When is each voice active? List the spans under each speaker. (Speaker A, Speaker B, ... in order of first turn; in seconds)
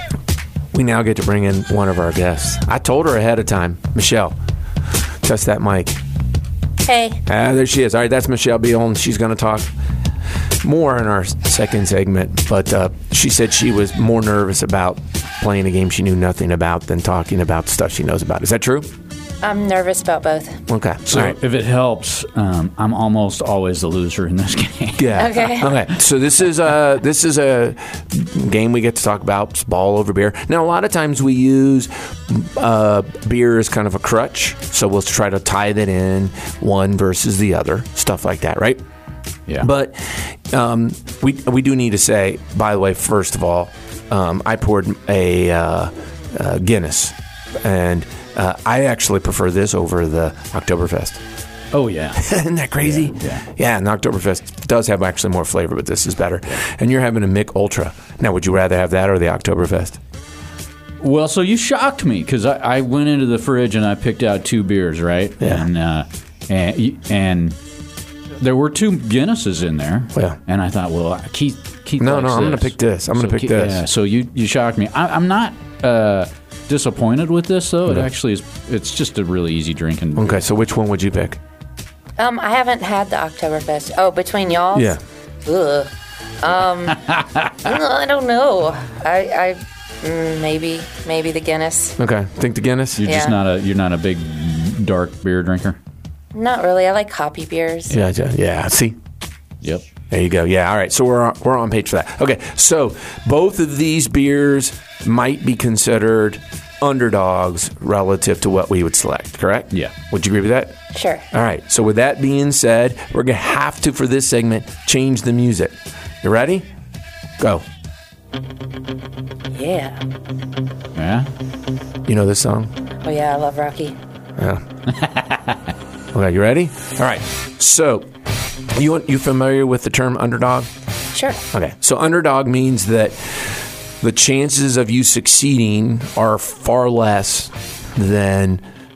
Speaker A: 0.7-4.4, 5.2-6.0, 7.3-9.7, 10.6-18.9, 20.7-21.4, 25.0-38.8, 39.6-51.2, 52.1-60.0, 65.4-65.7, 72.0-73.8, 80.2-81.4, 84.7-85.0, 92.0-93.0, 97.9-99.0, 100.1-110.8, 111.3-116.7, 117.4-117.7, 122.1-122.7, 124.4-124.6, 126.1-128.1, 128.7-130.7, 131.5-138.6
Speaker B: 6.8-7.2, 19.4-20.6, 25.1-25.7, 82.2-85.9, 86.4-92.0, 93.0-93.3, 96.3-98.0, 110.9-111.3, 119.5-120.0, 123.0-124.0, 131.1-131.4
Speaker C: 21.1-25.3, 51.7-52.2, 52.8-53.5, 61.0-67.6, 68.4-80.5, 87.0-87.6, 93.0-95.8, 121.0-121.3, 124.9-125.7